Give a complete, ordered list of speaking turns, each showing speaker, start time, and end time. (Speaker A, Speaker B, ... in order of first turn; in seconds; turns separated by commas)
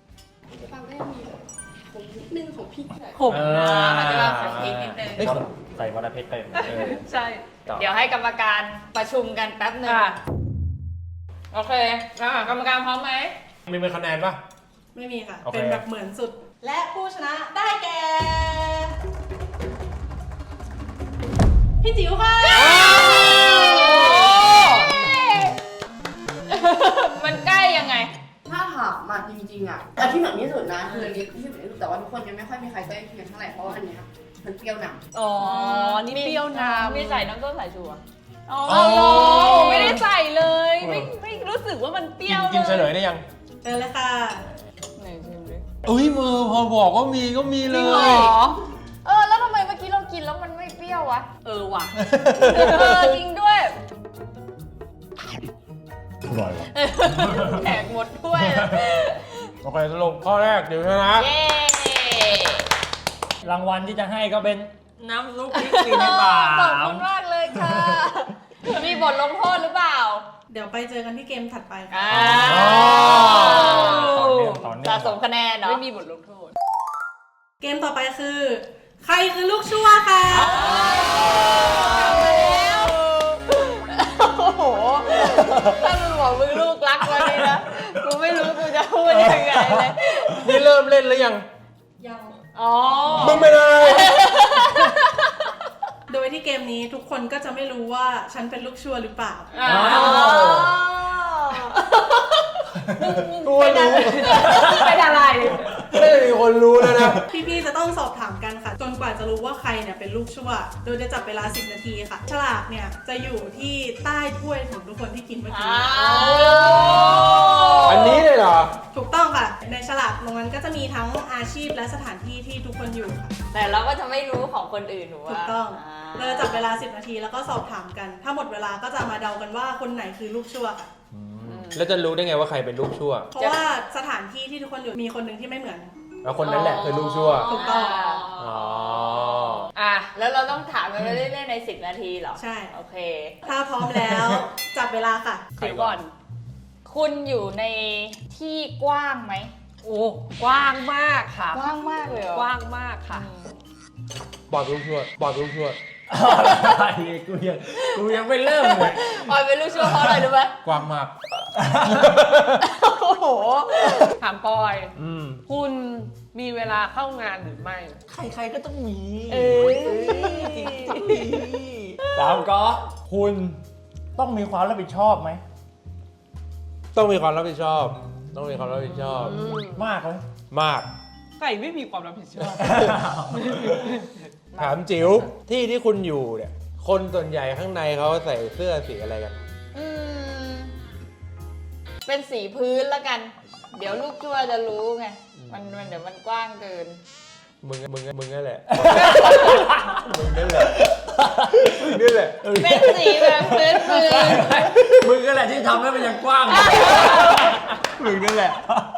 Speaker A: 0.5-3.3, Speaker B: 3.1-4.0, Speaker C: 3.3-5.4, Speaker D: 3.5-5.4, Speaker E: 5.2-7.0, Speaker B: 6.5-7.5, Speaker D: 7.7-10.1, Speaker B: 9.8-10.2, Speaker D: 11.5-13.3, Speaker B: 12.3-12.5, Speaker C: 13.7-14.4, Speaker F: 14.9-18.9, Speaker C: 15.4-15.8, Speaker F: 21.8-24.3, Speaker D: 22.4-25.6, Speaker D: 26.5-28.1, Speaker A: 28.4-35.0, Speaker B: 35.1-37.3, Speaker D: 35.4-40.0, Speaker B: 38.5-42.9, Speaker C: 38.7-39.9, Speaker C: 40.8-41.1, Speaker C: 42.2-43.2, Speaker F: 43.6-44.5, Speaker D: 45.0-45.6, Speaker C: 45.8-48.4, Speaker B: 47.6-48.6, Speaker D: 48.0-48.3, Speaker D: 49.0-51.3, Speaker B: 51.4-53.8, Speaker C: 52.0-53.1, Speaker E: 56.2-57.7, Speaker D: 56.8-59.5, Speaker C: 59.6-61.3, Speaker D: 61.1-62.7, Speaker E: 63.4-68.0, Speaker D: 65.5-70.3, Speaker F: 70.5-72.3, Speaker D: 71.9-75.8, Speaker E: 72.1-75.2, Speaker C: 72.3-73.7, Speaker B: 73.3-74.6, Speaker B: 75.6-76.5, Speaker F: 77.6-80.7, Speaker D: 80.4-90.5, Speaker B: 80.5-82.9, Speaker E: 85.2-85.8, Speaker E: 89.2-89.9, Speaker C: 90.4-91.4, Speaker F: 92.0-92.4, Speaker B: 92.5-93.5, Speaker E: 93.1-93.5, Speaker C: 93.1-94.2, Speaker D: 93.8-95.3, Speaker F: 96.1-99.5, Speaker B: 99.5-100.7, Speaker E: 99.6-100.8, Speaker D: 99.6-101.8, Speaker B: 103.0-105.8, Speaker C: 103.4-104.8, Speaker E: 104.3-104.9, Speaker C: 105.9-107.3, Speaker E: 106.8-107.2, Speaker F: 107.3-118.1, Speaker D: 115.5-118.3, Speaker C: 117.8-118.7, Speaker F: 118.9-123.3, Speaker D: 123.5-126.7, Speaker F: 125.3-130.9, Speaker E: 131.1-131.7, Speaker B: 131.5-131.7, Speaker C: 131.7-133.3, Speaker F: 133.3-135.9, Speaker C: 136.2-137.5, Speaker B: 136.4-138.5, Speaker D: 137.2-143.3, Speaker F: 137.5-138.1, Speaker C: 138.4-139.7, Speaker B: 139.7-140.1, Speaker F: 142.3-142.7, Speaker F: 143.4-145.5, Speaker C: 144.1-144.4, Speaker B: 145.6-146.1, Speaker C: 145.6-146.0, Speaker D: 146.8-149.5, Speaker B: 149.8-151.7, Speaker D: 151.5-152.5, Speaker B: 152.3-153.3, Speaker D: 153.1-153.4, Speaker C: 154.5-155.8, Speaker E: 156.1-160.2, Speaker D: 157.9-160.6, Speaker C: 160.6-161.1, Speaker E: 161.6-162.2, Speaker C: 161.8-162.6, Speaker D: 162.6-164.2, Speaker B: 164.2-164.9, Speaker C: 165.0-165.4, Speaker B: 165.5-168.0, Speaker E: 168.1-173.6, Speaker D: 169.3-171.3, Speaker E: 174.2-175.4, Speaker C: 176.9-179.4, Speaker B: 179.2-179.8, Speaker E: 179.2-180.2, Speaker C: 180.5-180.9, Speaker B: 181.4-184.7, Speaker E: 182.5-183.8, Speaker C: 184.6-189.4, Speaker D: 189.7-190.7, Speaker D: 192.0-197.0, Speaker C: 197.6-200.9, Speaker E: 198.7-207.5, Speaker B: 199.1-199.6, Speaker C: 201.5-202.4, Speaker D: 202.5-204.7, Speaker C: 204.7-205.1, Speaker D: 206.5-207.5, Speaker C: 207.9-208.6